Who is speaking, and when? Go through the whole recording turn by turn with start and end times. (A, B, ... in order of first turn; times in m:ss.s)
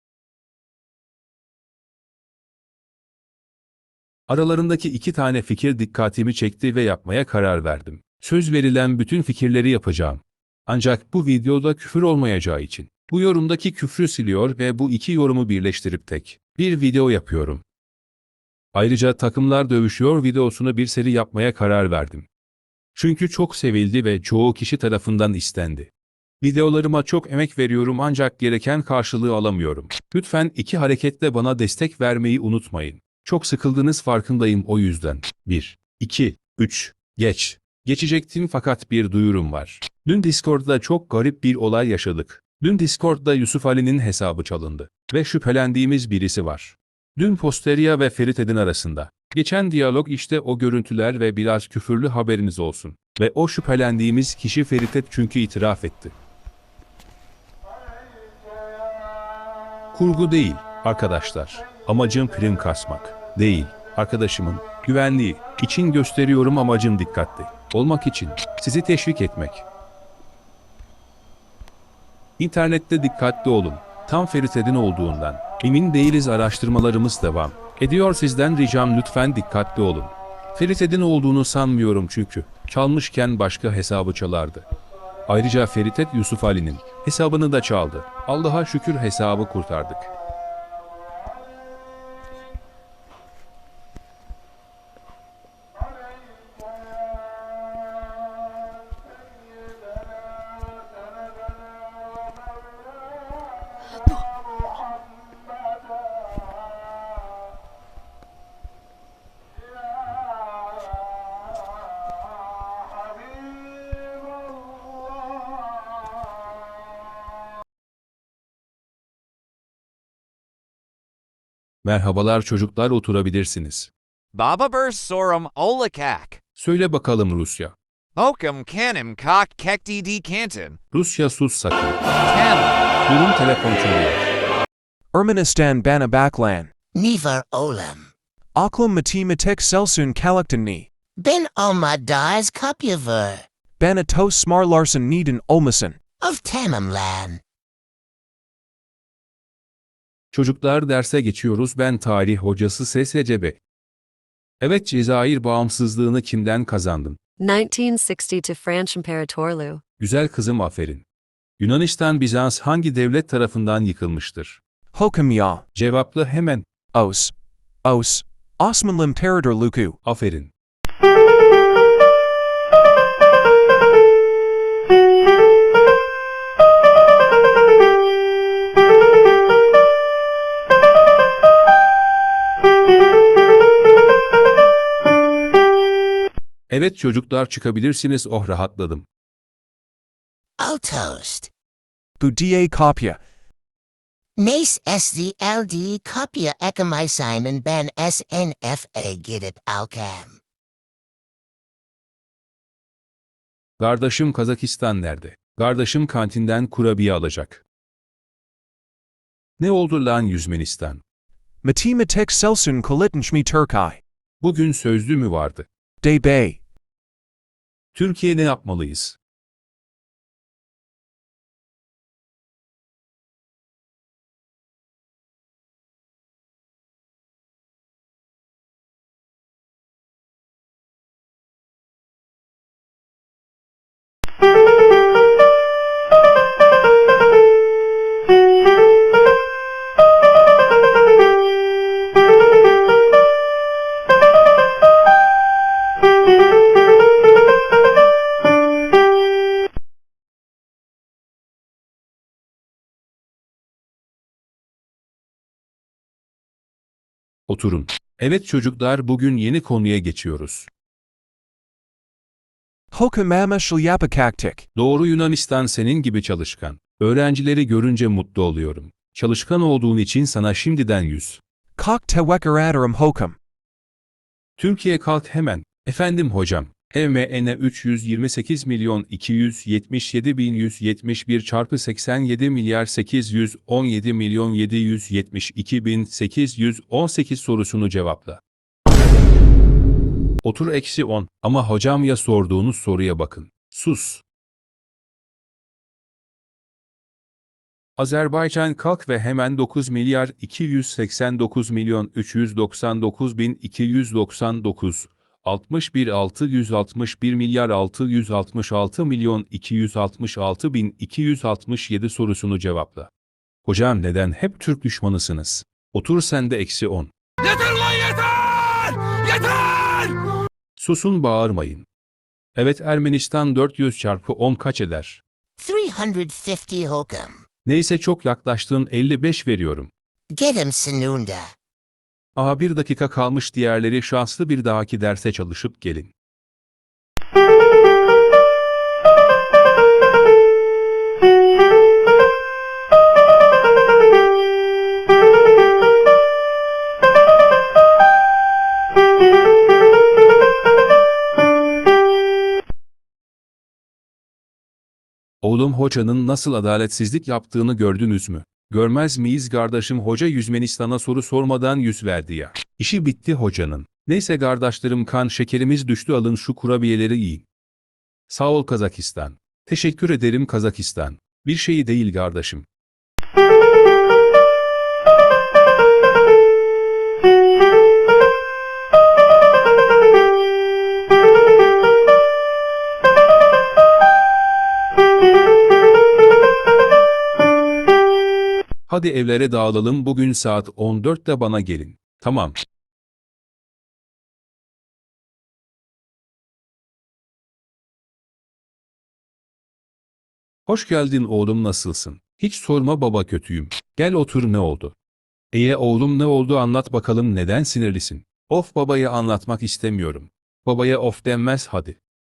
0:04.3-0:17.6 A
0:18.7-0:22.3 A
0:22.9-0:56.1 A
0:59.9-1:09.6 A
1:12.4-1:24.6 A
1:25.3-1:30.1 A
2:01.8-2:03.9 A
2:04.3-2:06.4 B
2:06.6-2:07.7 A
2:08.2-2:10.8 B
2:10.9-2:12.0 A
2:12.3-2:12.8 B
2:13.0-2:14.3 A
2:15.1-2:16.7 C
2:16.9-2:18.1 D
2:18.5-2:20.9 C
2:21.2-2:23.4 D
2:23.8-2:26.0 C
2:26.2-2:27.4 D
2:30.3-2:33.6 A
2:34.6-2:37.2 A
2:37.4-2:39.8 E
2:40.0-2:41.0 A
2:41.6-2:44.6 A
2:44.9-2:45.6 C
2:45.7-2:46.6 A
2:46.9-2:47.3 C
2:47.8-2:50.0 C
2:50.0-2:50.5 A
3:06.7-3:09.1 A
3:10.6-3:11.5 D
3:12.2-3:13.2 C
3:14.4-3:20.4 D
3:23.8-3:27.6 A
3:29.6-3:31.0 A
3:31.6-3:34.0 C
3:34.4-3:35.7 A
3:36.0-3:36.6 C
3:37.9-3:39.2 A
4:17.5-4:20.7 A
4:22.9-4:24.6 C
4:24.7-4:31.4 A
4:31.8-4:33.4 C
4:34.6-4:48.4 A
4:50.4-4:54.2 A
4:58.0-5:13.1 A
5:13.6-5:20.1 A
5:20.8-5:21.8 A
5:22.6-5:25.2 A
5:25.6-5:27.4 D
5:27.6-5:29.9 A
5:30.3-5:31.5 D
5:32.4-5:36.1 A
5:55.4-6:07.4 A
6:08.3-6:12.7 A
6:28.9-6:32.6 A
6:40.7-6:44.9 A
6:45.5-6:52.0 A